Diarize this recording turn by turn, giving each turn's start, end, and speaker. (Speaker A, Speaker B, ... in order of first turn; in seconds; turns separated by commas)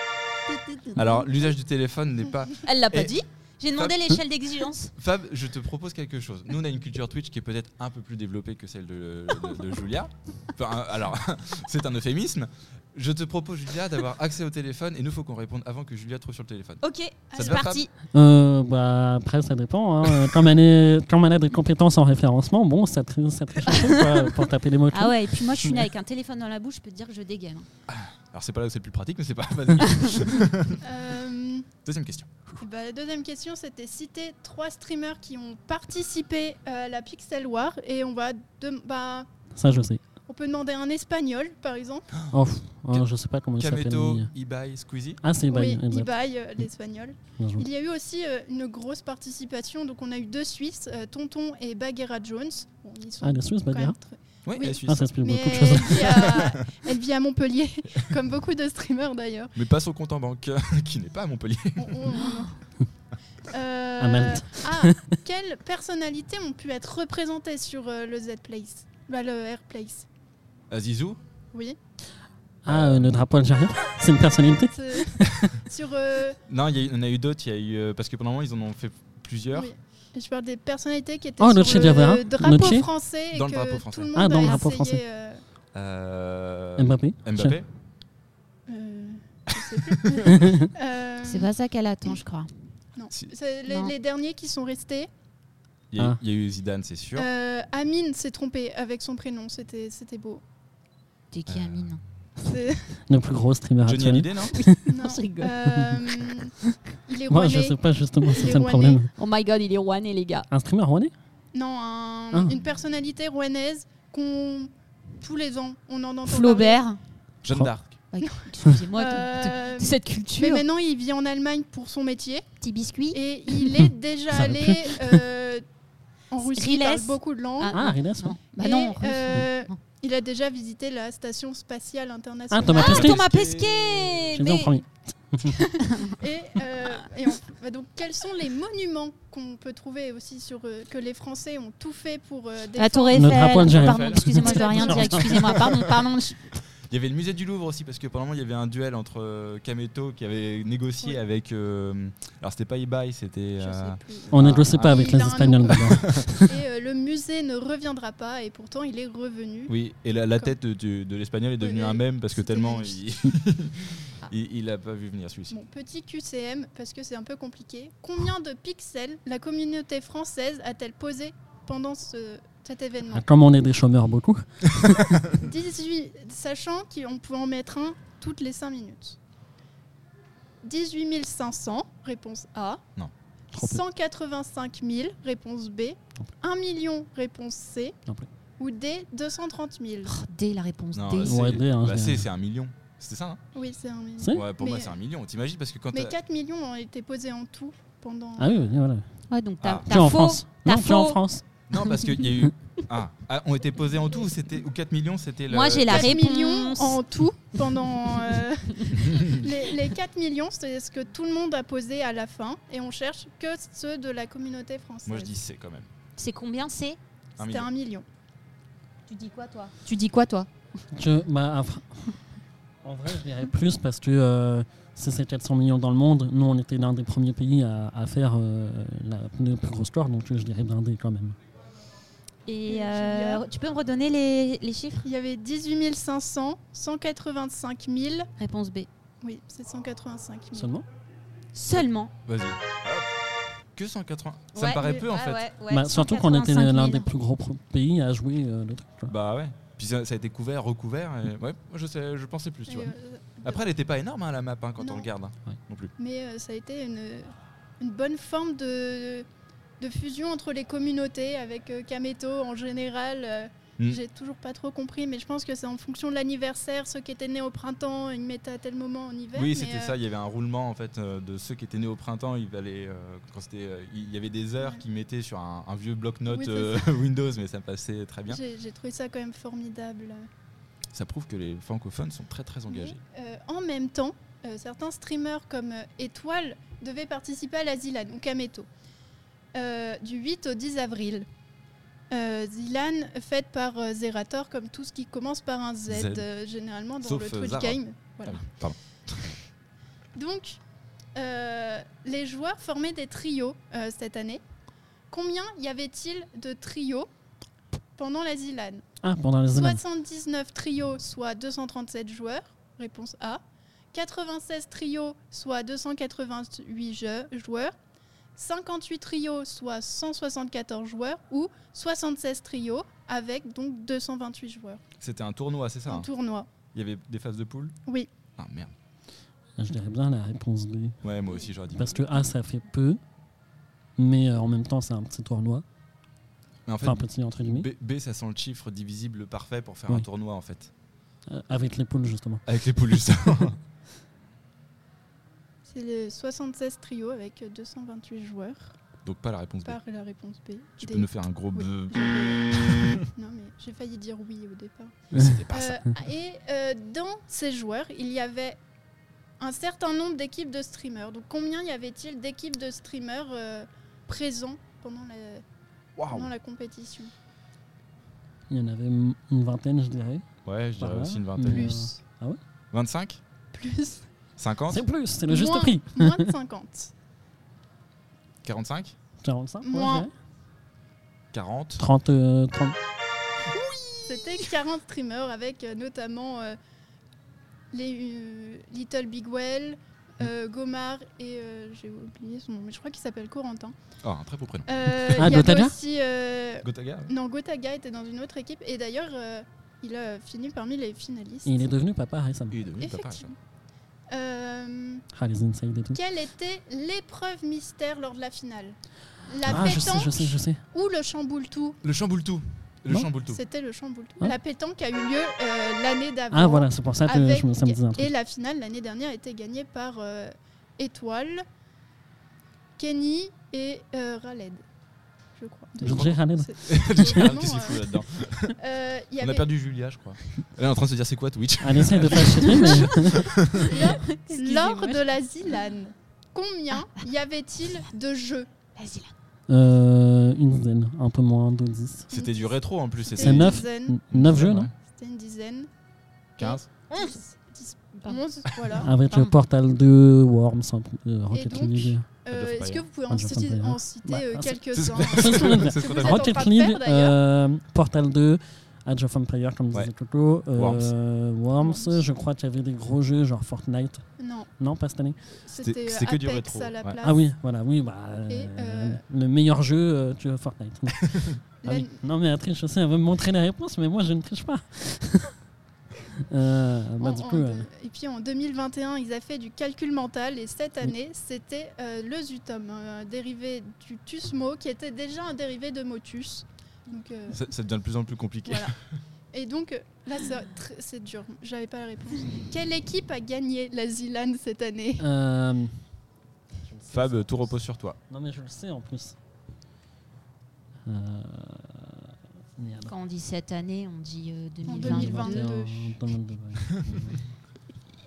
Speaker A: 0.5-1.3, Speaker B: 0.9-3.1, Speaker C: 2.6-4.9, Speaker B: 3.8-4.1, Speaker B: 5.0-16.8, Speaker C: 16.8-17.9, Speaker A: 17.3-17.6, Speaker B: 17.4-17.8, Speaker D: 18.1-25.8, Speaker C: 23.7-24.3, Speaker C: 24.9-27.7, Speaker B: 27.9-30.8, Speaker A: 30.8-31.7, Speaker B: 31.8-32.3, Speaker A: 32.6-39.3, Speaker D: 39.5-40.0, Speaker A: 40.3-42.1, Speaker D: 42.3-44.3, Speaker B: 42.9-45.2, Speaker D: 45.2-46.1, Speaker A: 45.5-59.5, Speaker D: 47.4-47.6, Speaker D: 53.2-54.0, Speaker B: 54.4-55.1, Speaker D: 54.8-56.2, Speaker B: 55.8-56.7, Speaker B: 59.5-62.2, Speaker A: 61.8-62.6, Speaker A: 63.5-70.1, Speaker D: 64.0-65.1, Speaker B: 70.7-71.2, Speaker D: 72.6-74.8, Speaker B: 72.7-73.1, Speaker A: 74.7-76.4, Speaker B: 76.5-79.7, Speaker A: 79.5-85.4, Speaker D: 81.4-82.9, Speaker B: 83.3-84.6, Speaker D: 84.1-85.0, Speaker B: 85.7-87.7, Speaker D: 86.8-87.6, Speaker A: 88.7-91.5, Speaker B: 89.5-90.2, Speaker D: 90.3-90.7, Speaker C: 91.2-92.5, Speaker A: 93.0-95.1, Speaker C: 93.7-93.9, Speaker B: 95.9-97.3, Speaker A: 97.2-100.4, Speaker C: 101.3-102.0, Speaker B: 101.5-101.9, Speaker A: 102.4-103.0, Speaker D: 103.1-104.9, Speaker B: 103.8-104.6, Speaker C: 104.5-105.5, Speaker A: 104.9-106.5, Speaker D: 105.7-105.9, Speaker A: 107.1-109.0, Speaker D: 107.3-109.1, Speaker C: 109.2-110.5, Speaker D: 110.5-111.1, Speaker A: 111.5-116.8, Speaker C: 116.2-117.0, Speaker B: 117.4-118.0, Speaker C: 118.1-120.6, Speaker A: 118.2-122.5, Speaker C: 122.6-123.8, Speaker A: 123.1-125.6, Speaker D: 124.3-125.2, Speaker A: 126.3-127.8, Speaker C: 126.4-129.8, Speaker D: 127.7-128.4, Speaker A: 128.6-133.1, Speaker D: 132.5-133.2, Speaker C: 132.7-134.8, Speaker B: 132.7-134.3, Speaker D: 134.3-135.6, Speaker C: 135.5-136.2, Speaker A: 136.2-145.6, Speaker C: 142.8-146.5, Speaker D: 143.1-145.3, Speaker B: 143.7-144.3, Speaker B: 145.4-145.8, Speaker B: 146.9-156.4, Speaker A: 153.6-159.7, Speaker D: 154.3-156.2, Speaker B: 159.7-165.6, Speaker A: 161.6-163.0, Speaker A: 165.5-173.2, Speaker D: 173.1-175.2, Speaker A: 175.4-179.2, Speaker A: 180.6-182.8, Speaker A: 183.5-188.0, Speaker D: 183.5-183.8, Speaker A: 188.6-190.1, Speaker C: 190.0-191.4, Speaker B: 190.9-193.4, Speaker D: 191.2-192.3, Speaker A: 193.5-195.0, Speaker D: 194.2-194.4, Speaker B: 194.3-196.1, Speaker A: 195.9-198.5, Speaker D: 198.4-199.1, Speaker C: 199.3-201.2, Speaker B: 199.6-199.9, Speaker D: 199.8-201.4, Speaker B: 201.7-206.1, Speaker C: 205.5-207.0, Speaker A: 205.9-215.3, Speaker B: 209.0-209.4, Speaker B: 215.1-215.9, Speaker C: 216.2-217.0, Speaker B: 217.4-217.7, Speaker A: 217.4-218.1, Speaker C: 219.1-220.5, Speaker D: 220.9-222.1, Speaker D: 222.8-231.3, Speaker C: 232.4-235.1, Speaker A: 232.7-233.4, Speaker A: 235.0-238.3, Speaker C: 238.4-238.9, Speaker A: 239.2-240.7, Speaker D: 240.6-240.8, Speaker C: 241.5-242.1, Speaker B: 241.7-243.1, Speaker B: 243.7-245.4, Speaker C: 244.5-247.1, Speaker D: 245.7-249.1, Speaker A: 246.4-247.1, Speaker B: 249.1-255.9, Speaker A: 252.7-253.6, Speaker A: 254.8-255.1, Speaker A: 256.0-259.2, Speaker A: 259.8-270.0, Speaker B: 269.3-278.4, Speaker A: 276.3-277.0, Speaker A: 278.3-280.3, Speaker B: 280.9-283.0, Speaker A: 282.7-288.7, Speaker A: 289.5-291.3, Speaker A: 292.1-298.4, Speaker B: 295.9-296.2, Speaker B: 297.0-299.4, Speaker A: 300.1-300.6, Speaker A: 301.1-304.4, Speaker A: 305.1-307.1, Speaker A: 308.0-308.8, Speaker D: 309.0-309.8, Speaker A: 309.6-313.4, Speaker A: 313.9-317.7, Speaker A: 318.4-324.8, Speaker B: 325.0-326.1, Speaker A: 325.9-326.5, Speaker B: 326.7-327.7, Speaker B: 328.4-328.7, Speaker D: 329.6-331.0, Speaker B: 331.0-332.0, Speaker D: 331.7-333.0, Speaker D: 334.0-335.6, Speaker B: 336.7-340.7, Speaker D: 336.8-337.7, Speaker D: 341.3-342.4, Speaker B: 342.4-343.6, Speaker A: 345.7-348.7, Speaker B: 349.0-349.8, Speaker A: 349.6-352.4, Speaker B: 350.8-353.1, Speaker A: 353.1-358.6, Speaker B: 355.1-355.8, Speaker A: 359.4-365.4, Speaker B: 366.0-366.3, Speaker A: 366.1-367.1, Speaker D: 368.5-370.2, Speaker B: 370.4-371.7, Speaker D: 370.8-372.4, Speaker A: 371.5-372.0, Speaker B: 372.7-373.2, Speaker A: 373.5-374.1, Speaker B: 374.4-374.8, Speaker D: 374.7-376.3, Speaker A: 375.3-376.9, Speaker B: 378.4-378.9, Speaker D: 379.2-380.1, Speaker A: 379.6-380.1, Speaker B: 381.3-381.8, Speaker D: 381.8-382.8, Speaker B: 383.5-384.4, Speaker A: 384.0-386.6, Speaker A: 387.7-393.8, Speaker B: 394.0-394.7, Speaker A: 394.7-401.7, Speaker D: 395.1-395.7, Speaker B: 396.6-397.1, Speaker D: 401.4-402.6, Speaker B: 402.5-403.3, Speaker A: 402.8-403.3, Speaker A: 404.1-405.1, Speaker D: 405.1-406.0, Speaker A: 405.9-411.8, Speaker D: 409.4-410.6, Speaker B: 411.8-413.4, Speaker A: 413.3-421.4, Speaker D: 416.3-418.1, Speaker A: 422.8-424.6, Speaker A: 425.4-427.8, Speaker D: 425.8-427.8, Speaker B: 425.9-428.5, Speaker A: 428.6-429.5, Speaker B: 429.2-433.9, Speaker D: 431.6-433.3, Speaker C: 432.3-432.9, Speaker C: 433.5-435.1, Speaker A: 433.7-438.5, Speaker C: 438.8-439.1, Speaker D: 439.5-442.1, Speaker B: 442.1-444.7, Speaker A: 443.1-444.0, Speaker D: 443.2-444.7, Speaker A: 444.9-445.7, Speaker B: 446.4-446.7, Speaker A: 446.4-448.9, Speaker C: 446.9-447.2, Speaker D: 448.8-452.1, Speaker C: 448.8-449.3, Speaker A: 451.3-457.2, Speaker B: 452.3-452.9, Speaker D: 453.1-464.1, Speaker B: 454.7-456.4, Speaker B: 460.6-460.9, Speaker A: 461.6-462.0, Speaker A: 464.2-464.5, Speaker D: 464.6-465.2, Speaker A: 465.4-467.2, Speaker B: 465.6-467.0, Speaker D: 467.0-471.0, Speaker A: 468.3-469.0, Speaker A: 471.6-472.0, Speaker D: 471.6-475.3, Speaker D: 476.3-477.7, Speaker A: 477.0-487.4, Speaker B: 487.3-488.7, Speaker A: 488.4-488.7, Speaker A: 489.3-495.1, Speaker D: 495.0-495.8, Speaker D: 496.6-497.5, Speaker B: 496.9-498.0, Speaker D: 498.1-499.2, Speaker D: 500.8-502.9, Speaker C: 502.9-505.5, Speaker A: 504.7-506.0, Speaker D: 504.8-507.3